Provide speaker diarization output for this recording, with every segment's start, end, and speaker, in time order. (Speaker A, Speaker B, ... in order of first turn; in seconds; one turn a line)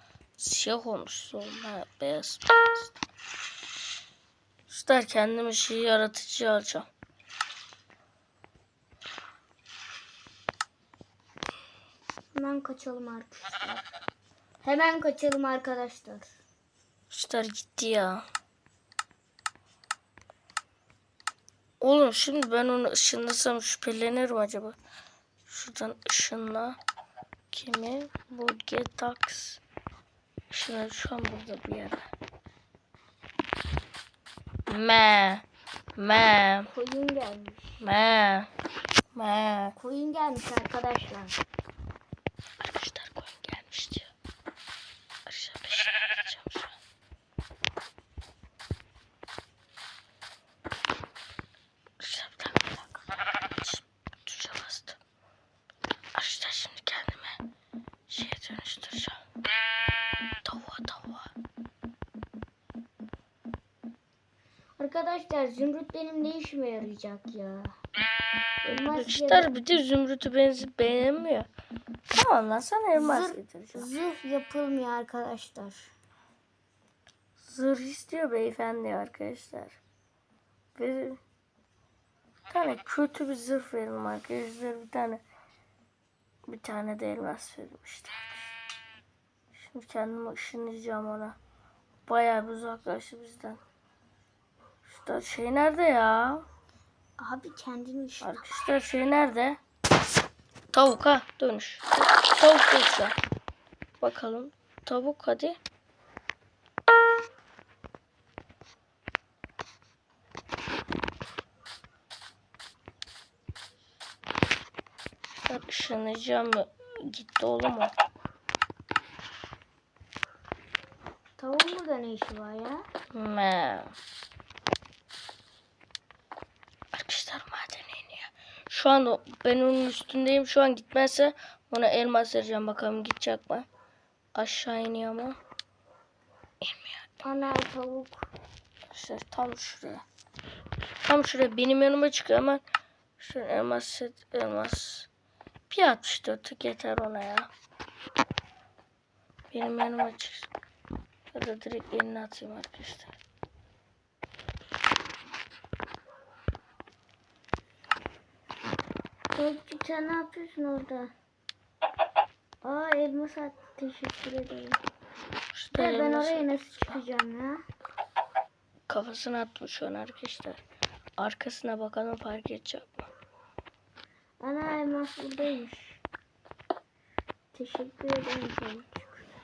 Speaker A: 0.4-2.4
Speaker A: 4.7-6.9
Speaker B: 12.3-13.8
Speaker B: 14.6-16.3
Speaker A: 17.1-18.2
Speaker A: 21.8-24.8
Speaker A: 25.5-26.8
Speaker A: 27.5-29.6
Speaker A: 30.5-32.1
Speaker A: 34.7-36.7
Speaker B: 36.7-37.8
Speaker A: 37.8-38.5
Speaker A: 39.1-39.8
Speaker B: 39.8-41.4
Speaker A: 42.6-44.1
Speaker A: 45.2-46.7
Speaker A: 52.0-55.0
Speaker A: 56.1-57.4
Speaker A: 58.1-59.2
Speaker A: 60.4-61.3
Speaker B: 64.8-67.7
Speaker B: 68.6-69.5
Speaker A: 68.8-71.5
Speaker A: 72.1-73.9
Speaker B: 72.9-75.9
Speaker A: 77.4-79.8
Speaker A: 80.7-81.2
Speaker A: 82.5-85.2
Speaker A: 86.5-88.5
Speaker A: 89.5-91.4
Speaker A: 92.0-93.6
Speaker A: 94.8-96.4
Speaker B: 97.2-98.5
Speaker A: 98.2-99.6
Speaker A: 100.7-103.1
Speaker A: 104.0-105.6
Speaker A: 115.4-117.9
Speaker B: 121.4-122.8
Speaker A: 123.1-123.9
Speaker A: 126.9-133.7
Speaker A: 134.3-135.4
Speaker A: 136.6-137.1
Speaker B: 137.2-138.3
Speaker A: 138.9-140.0
Speaker A: 141.0-142.6
Speaker A: 143.2-145.1
Speaker A: 145.7-147.5
Speaker A: 149.5-150.5
Speaker A: 151.3-153.1
Speaker B: 159.3-161.1
Speaker B: 162.6-164.8
Speaker A: 165.5-166.9
Speaker B: 165.7-167.6
Speaker A: 168.9-170.6
Speaker A: 171.2-173.1
Speaker B: 174.4-176.0
Speaker B: 177.5-179.2